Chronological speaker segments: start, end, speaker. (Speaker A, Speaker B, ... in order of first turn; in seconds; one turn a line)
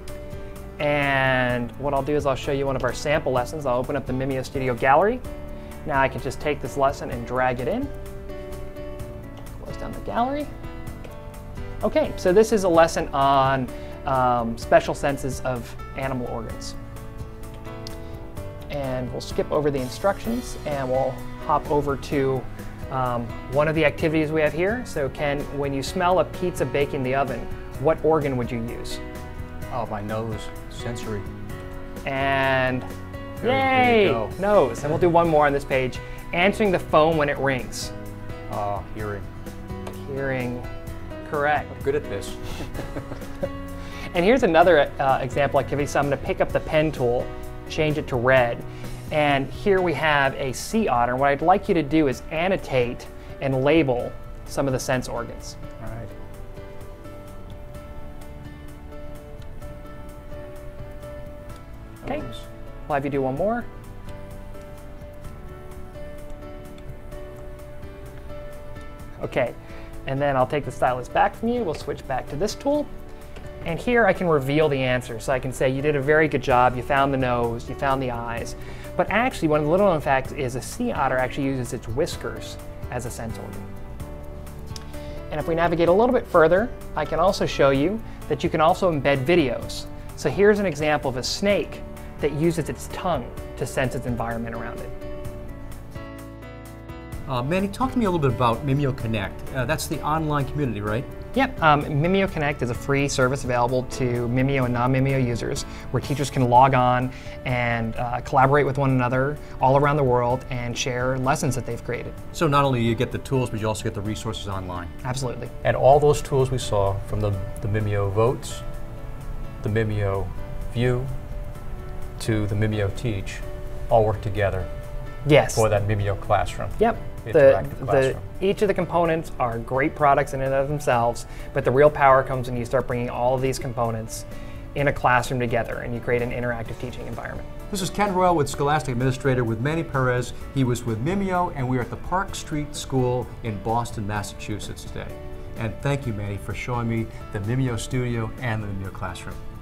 Speaker A: 0.8-5.2
Speaker A: 5.8-7.9
Speaker A: 9.6-10.5
Speaker A: 11.8-16.8
Speaker A: 18.7-29.0
Speaker B: 29.7-31.3
Speaker A: 32.0-32.9
Speaker B: 33.4-34.3
Speaker A: 33.4-37.9
Speaker B: 38.5-39.3
Speaker A: 39.9-40.6
Speaker A: 41.2-41.7
Speaker B: 41.7-42.8
Speaker A: 44.1-55.6
Speaker B: 55.8-56.1
Speaker A: 62.0-62.3
Speaker B: 62.0-62.4
Speaker A: 62.9-63.7
Speaker A: 69.2-72.9
Speaker A: 73.6-83.7
Speaker A: 85.3-94.9
Speaker B: 97.3-101.1
Speaker A: 101.3-112.2
Speaker B: 112.3-114.9
Speaker A: 115.0-115.5
Speaker B: 115.6-118.6
Speaker B: 119.6-121.1
Speaker B: 122.2-124.7
Speaker A: 125.2-125.6
Speaker B: 125.5-128.2
Speaker A: 126.8-137.5
Speaker B: 137.7-149.4